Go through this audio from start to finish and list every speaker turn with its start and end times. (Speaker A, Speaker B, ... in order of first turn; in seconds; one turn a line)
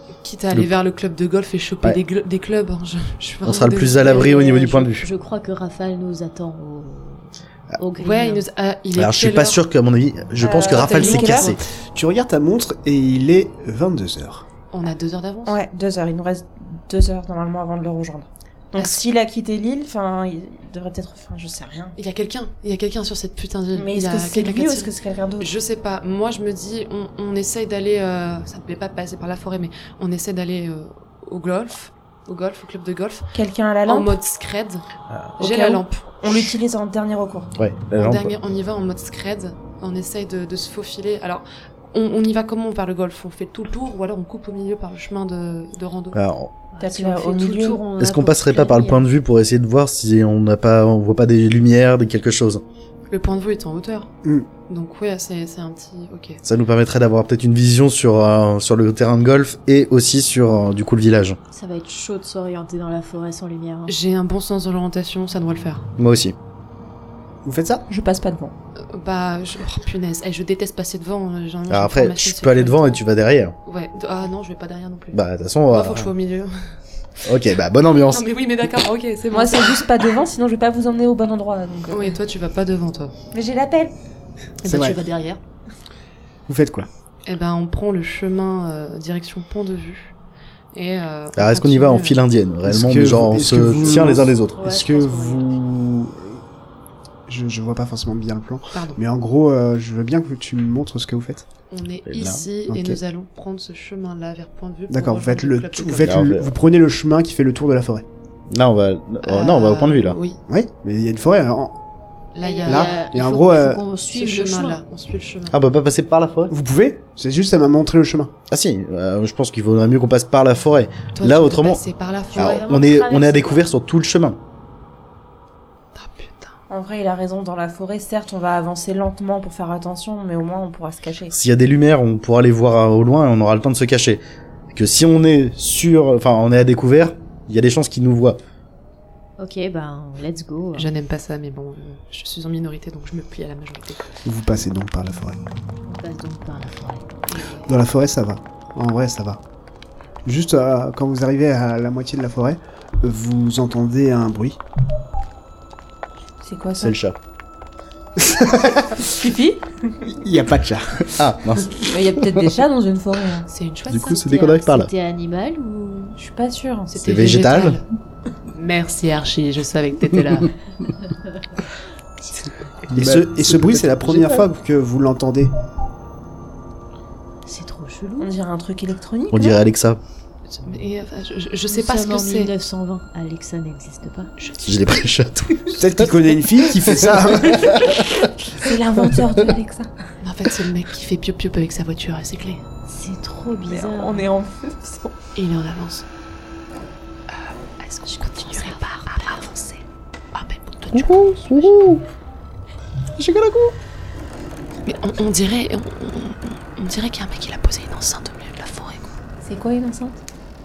Speaker A: 0.2-4.6
Speaker B: 3.5-5.1
Speaker C: 4.0-8.4
Speaker A: 8.0-9.6
Speaker B: 9.0-11.6
Speaker D: 10.4-11.6
Speaker A: 10.7-11.6
Speaker E: 11.8-14.5
Speaker A: 14.7-15.6
Speaker D: 15.5-22.0
Speaker A: 18.8-19.0
Speaker A: 22.0-33.3
Speaker D: 23.8-25.5
Speaker D: 33.3-34.2
Speaker A: 33.9-34.9
Speaker B: 35.1-35.4
Speaker A: 35.4-36.0
Speaker D: 35.4-37.5
Speaker B: 37.6-38.3
Speaker A: 37.9-46.2
Speaker B: 46.1-46.6
Speaker C: 46.7-49.1
Speaker D: 46.8-47.9
Speaker B: 47.9-52.6
Speaker A: 53.1-54.1
Speaker A: 54.7-56.4
Speaker B: 56.4-61.4
Speaker C: 61.5-64.0
Speaker A: 63.9-65.9
Speaker B: 66.0-66.4
Speaker E: 67.5-67.8
Speaker D: 67.9-68.5
Speaker A: 68.9-72.8
Speaker B: 71.7-73.6
Speaker A: 73.7-76.5
Speaker B: 75.1-76.1
Speaker B: 77.2-78.3
Speaker A: 78.1-80.1
Speaker D: 79.3-82.2
Speaker A: 81.9-83.1
Speaker D: 83.3-83.9
Speaker A: 84.6-85.4
Speaker E: 84.7-85.0
Speaker E: 86.5-86.9
Speaker A: 87.3-90.1
Speaker A: 90.7-92.2
Speaker B: 91.4-94.7
Speaker E: 92.7-96.4
Speaker C: 94.2-95.6
Speaker E: 97.3-101.5
Speaker A: 98.7-99.0
Speaker A: 101.7-106.2
Speaker B: 102.1-103.0
Speaker E: 104.9-108.1
Speaker B: 106.0-106.5
Speaker B: 108.5-110.2
Speaker A: 109.2-110.4
Speaker E: 110.5-111.8
Speaker A: 112.3-113.0
Speaker C: 112.4-114.8
Speaker E: 112.7-113.8
Speaker A: 114.1-115.6
Speaker B: 115.5-116.5
Speaker E: 116.5-118.3
Speaker B: 118.5-121.8
Speaker A: 121.2-122.6
Speaker B: 122.3-124.4
Speaker C: 122.3-123.7
Speaker A: 126.0-126.6
Speaker D: 126.7-131.3
Speaker B: 131.3-138.4
Speaker C: 139.4-140.9
Speaker A: 140.8-144.1
Speaker E: 144.2-145.4
Speaker C: 145.9-147.1
Speaker A: 147.3-147.8
Speaker E: 147.7-149.4
Speaker E: 150.2-154.6
Speaker D: 156.4-157.0
Speaker B: 156.8-157.2
Speaker D: 159.0-160.1
Speaker E: 160.1-161.1
Speaker B: 161.1-162.4
Speaker D: 161.8-163.5
Speaker A: 163.5-164.3
Speaker B: 163.9-164.9
Speaker C: 164.2-166.2
Speaker D: 166.2-167.3
Speaker A: 166.9-167.8
Speaker B: 167.1-167.8
Speaker A: 168.5-170.6
Speaker B: 172.8-174.4
Speaker E: 172.9-175.5
Speaker C: 177.5-178.4
Speaker D: 178.2-179.6
Speaker B: 179.3-180.0
Speaker A: 180.6-182.5
Speaker C: 181.7-184.3
Speaker A: 184.4-185.0
Speaker B: 184.7-186.1
Speaker E: 185.8-187.9
Speaker B: 186.9-188.3
Speaker D: 188.6-190.1
Speaker A: 190.2-192.6
Speaker C: 192.9-194.3
Speaker D: 193.7-195.2
Speaker A: 195.3-196.1
Speaker A: 197.3-199.8
Speaker C: 198.1-198.8
Speaker A: 200.3-201.8
Speaker B: 200.9-202.1
Speaker B: 203.2-203.8
Speaker A: 204.9-209.1
Speaker D: 209.4-210.2